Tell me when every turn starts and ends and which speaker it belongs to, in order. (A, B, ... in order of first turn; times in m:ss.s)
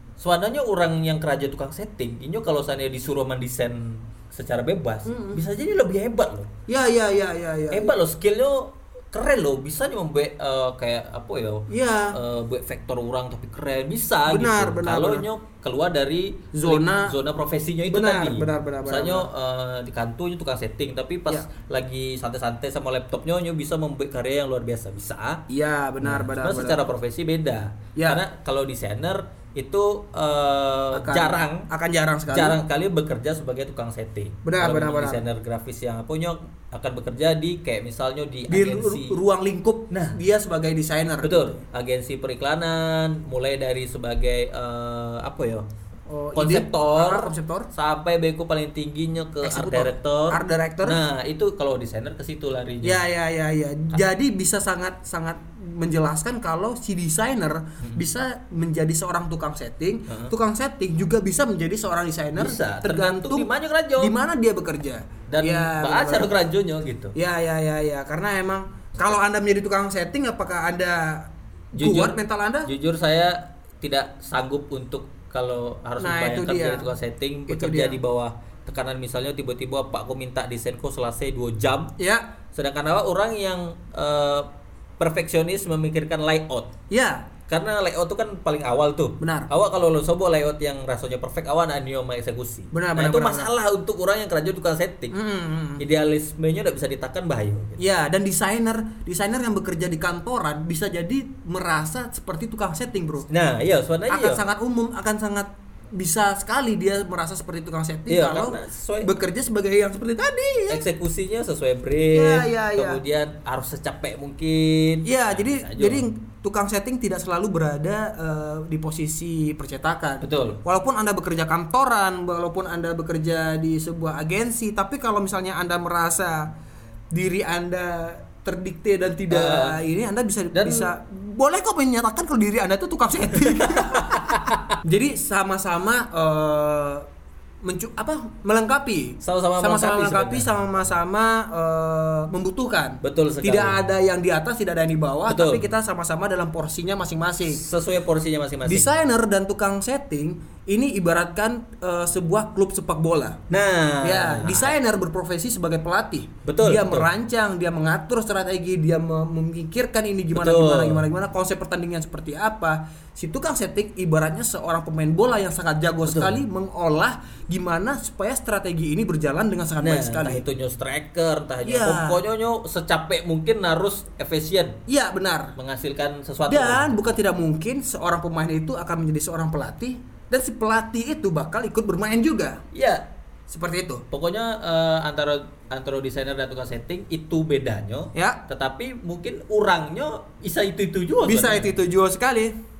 0:00.2-0:06.5 A
0:05.0-0:05.4 B
0:06.7-0:08.0 B
0:07.7-0:25.4 A
0:11.7-0:12.2 B
0:14.3-0:15.3 B
0:16.5-0:17.2 B
0:17.9-0:19.3 B
0:25.5-0:26.8 B
0:26.0-0:31.7 A
0:30.9-0:32.6 B
0:32.3-0:39.2 A
0:34.4-0:35.2 B
0:38.5-0:41.5 B
0:39.9-0:40.2 A
0:41.2-0:45.6 A
0:46.1-0:47.7 B
0:46.3-0:53.0 A
0:49.4-0:51.0 B
0:52.8-1:06.3 B
1:00.1-1:00.3 A
1:02.3-1:04.1 A
1:05.3-1:07.1 A
1:07.1-1:12.7 B
1:11.7-1:21.9 A
1:16.0-1:16.9 B
1:17.5-1:18.0 B
1:22.0-1:22.2 B
1:22.5-1:24.5 A
1:25.0-1:26.7 A
1:26.9-1:27.3 B
1:27.5-1:35.1 A
1:29.2-1:29.5 B
1:32.7-1:33.5 B
1:35.1-1:35.8 B
1:35.8-1:37.8 A
1:37.8-1:43.3 B
1:43.3-1:44.4 A
1:44.1-1:50.8 B
1:48.1-1:49.2 A
1:50.7-1:56.0 A
1:52.1-1:53.0 B
1:55.0-2:06.5 B
2:00.2-2:00.6 A
2:07.1-2:17.0 B
2:09.3-2:09.8 A
2:10.5-2:10.9 A
2:13.4-2:14.7 A
2:17.6-2:27.6 B
2:19.2-2:20.5 A
2:23.0-2:23.8 A
2:25.3-2:25.6 A
2:27.4-2:28.9 A
2:28.6-2:33.4 B
2:33.5-2:34.8 A
2:34.0-2:50.4 B
2:36.4-2:37.1 A
2:40.3-2:41.0 A
2:46.0-2:46.4 A
2:49.8-2:54.8 A
2:51.6-2:52.2 B
2:54.9-2:55.5 B
2:55.6-2:56.9 A
2:56.4-3:02.6 B
3:02.7-3:03.1 A
3:03.5-3:04.0 B
3:04.1-3:11.7 A
3:08.1-3:08.4 B
3:11.2-3:12.6 B